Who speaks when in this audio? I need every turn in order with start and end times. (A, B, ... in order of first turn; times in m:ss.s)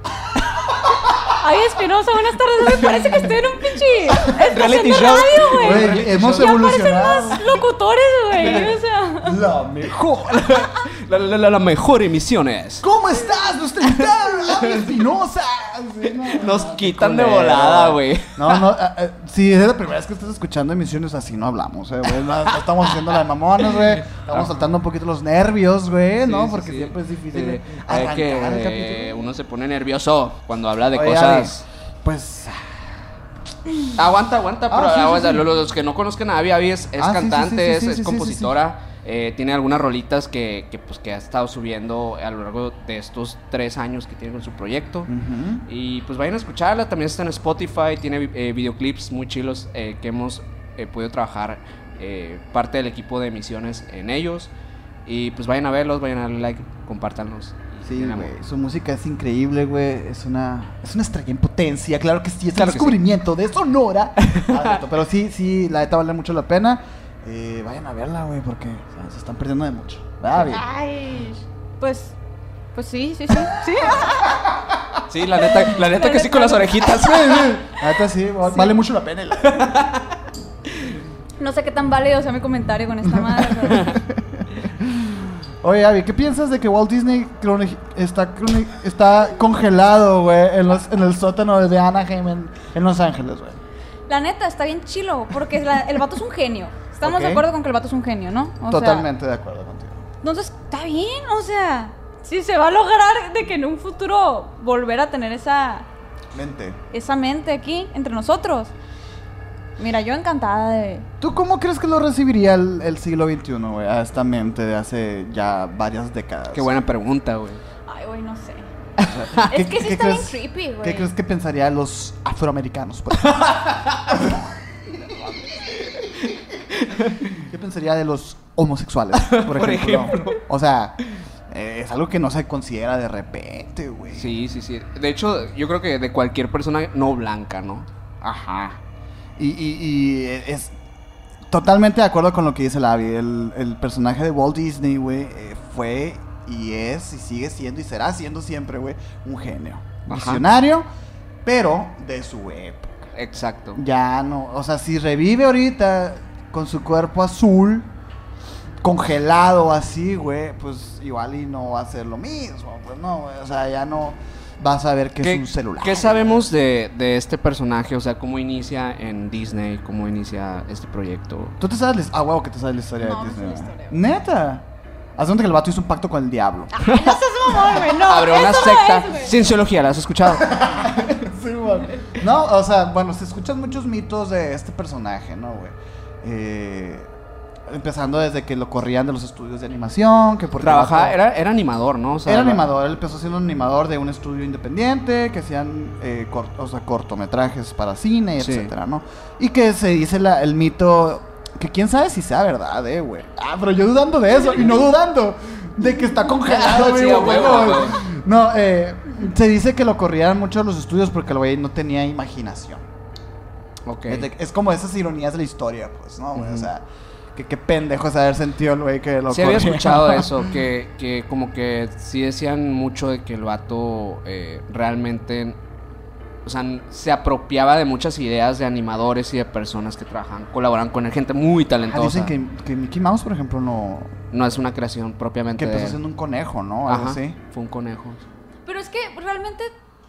0:00.3-0:01.4 A
0:01.4-0:09.4 B
0:04.1-0:06.6 C
0:04.5-0:07.5 A
0:08.4-0:08.7 C
0:09.2-0:10.7 A
0:10.3-0:12.8 C
0:12.8-0:29.3 A
0:14.0-0:14.9 C
0:16.2-0:18.7 C
0:23.8-0:24.5 C
0:26.2-0:31.6 C
0:30.9-0:33.0 A
0:33.7-0:34.0 A
0:33.9-0:45.1 C
0:34.7-0:35.4 A
0:37.0-0:38.6 A
0:45.1-0:45.6 A
0:45.7-0:54.5 C
0:55.0-0:58.3 C
0:57.8-1:10.6 A
1:02.6-1:03.0 C
1:04.2-1:04.8 C
1:10.4-1:12.2 B
1:12.7-1:14.4 B
1:13.8-1:15.0 A
1:15.1-1:17.6 C
1:15.4-1:17.0 B
1:17.0-1:19.7 A
1:18.5-1:18.7 B
1:19.5-1:20.1 C
1:21.4-1:23.9 B
1:23.1-1:33.6 A
1:23.7-1:24.0 C
1:34.1-1:39.1 B
1:37.0-1:37.4 A
1:38.7-1:40.0 A
1:40.2-1:45.9 B
1:46.3-1:46.8 A
1:46.9-1:48.7 B
1:49.8-1:51.0 B
1:51.2-1:56.8 A
1:56.5-1:57.6 C
1:57.9-1:58.7 B
1:59.0-2:06.6 A
1:59.4-2:01.1 B
2:06.7-2:07.4 C
2:07.3-2:14.3 A
2:09.2-2:10.4 C
2:14.1-2:17.9 C
2:18.2-2:18.8 A
2:19.4-2:20.7 A
2:21.5-2:30.8 A
2:30.1-2:30.4 C
2:31.4-2:33.1 A
2:33.1-2:33.8 C
2:33.7-2:37.9 A
2:38.8-2:46.5 A
2:45.2-2:51.6 C
2:51.6-2:54.6 A
2:53.0-2:53.9 B
2:55.2-2:56.8 A
2:56.7-2:59.4 B
2:56.8-3:01.1 C
3:00.3-3:07.1 A
3:07.7-3:11.2 A
3:10.6-3:12.6 C
3:12.2-3:32.8 A
3:18.4-3:18.7 C
3:26.4-3:28.0 C
3:33.8-3:34.3 C
3:34.1-3:40.5 A
3:36.3-3:36.7 C
3:39.3-3:45.6 C
3:46.4-3:52.3 C
3:51.9-3:54.1 A
3:54.3-3:56.0 C
3:55.6-3:57.4 A
3:56.9-3:58.2 C
3:58.6-3:59.7 B